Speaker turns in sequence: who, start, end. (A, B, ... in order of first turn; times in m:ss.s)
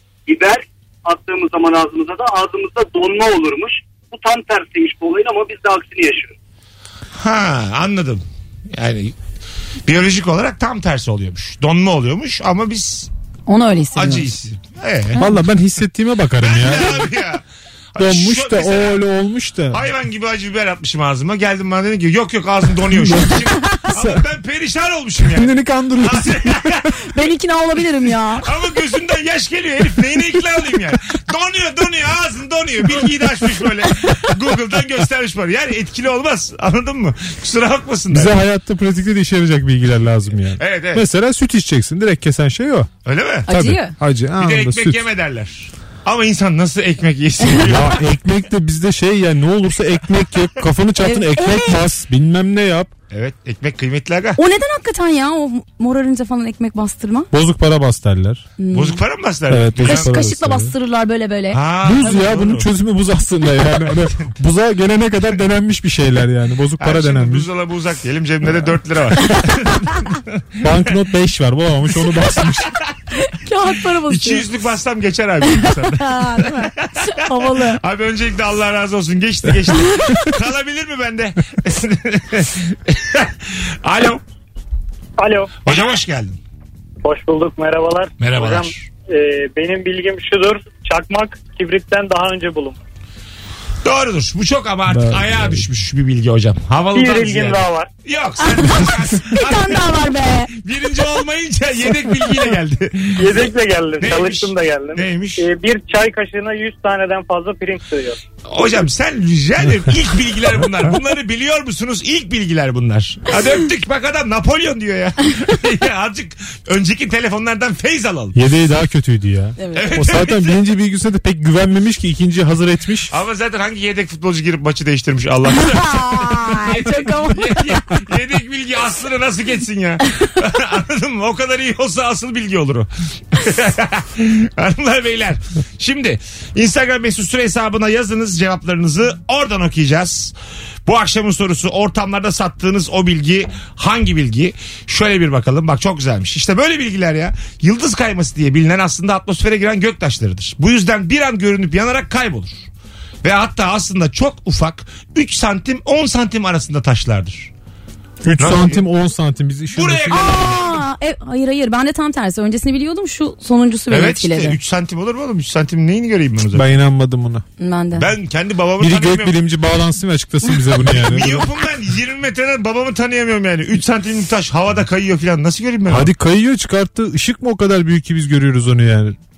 0:00.3-0:06.4 A
0:07.2-0:09.2 B
0:09.9-0:13.1 B
0:13.5-0:14.3 C
0:14.0-0:15.2 B
0:15.2-0:17.1 D
0:16.4-0:17.4 B
0:17.9-0:19.0 B
0:18.0-0:19.8 D
0:19.7-0:26.9 B
0:22.9-0:24.2 D
0:25.2-0:26.9 D
0:27.1-0:28.5 C
0:28.4-0:38.4 B
0:38.1-0:42.9 D
0:40.6-0:41.0 B
0:43.0-0:43.5 B
0:43.5-0:44.0 C
0:43.5-0:45.0 D
0:44.4-0:48.0 B
0:47.6-0:52.9 D
0:51.0-0:51.8 C
0:53.1-0:54.4 B
0:54.4-0:57.3 C
0:57.3-0:58.4 D
0:58.6-0:59.0 C
0:58.7-1:00.2 B
0:59.5-1:00.7 D
0:59.8-1:01.6 C
1:01.5-1:02.7 B
1:01.8-1:07.5 D
1:06.8-1:10.6 B
1:10.6-1:12.7 D
1:13.2-1:14.5 C
1:14.1-1:24.2 B
1:15.4-1:17.8 C
1:25.2-1:25.5 E
1:25.6-1:26.4 B
1:27.0-1:32.8 E
1:28.2-1:28.9 B
1:33.8-1:43.5 B
1:34.9-1:35.7 D
1:36.9-1:37.9 E
1:38.4-1:40.5 C
1:43.2-1:48.2 E
1:44.0-1:45.4 B
1:48.4-1:58.4 B
1:58.4-2:03.1 D
1:59.6-1:59.9 C
1:59.8-2:00.6 B
2:03.1-2:20.3 B
2:05.6-2:07.8 C
2:20.9-2:32.7 B
2:33.2-2:37.5 B
2:38.2-2:40.6 D
2:38.4-2:38.8 B
2:39.7-2:40.8 B
2:40.1-2:44.6 C
2:43.9-2:46.7 B
2:46.5-2:47.4 D
2:47.6-2:48.1 C
2:47.9-2:49.4 B
2:48.8-2:51.5 D
2:50.9-2:56.1 B
2:55.9-2:59.2 D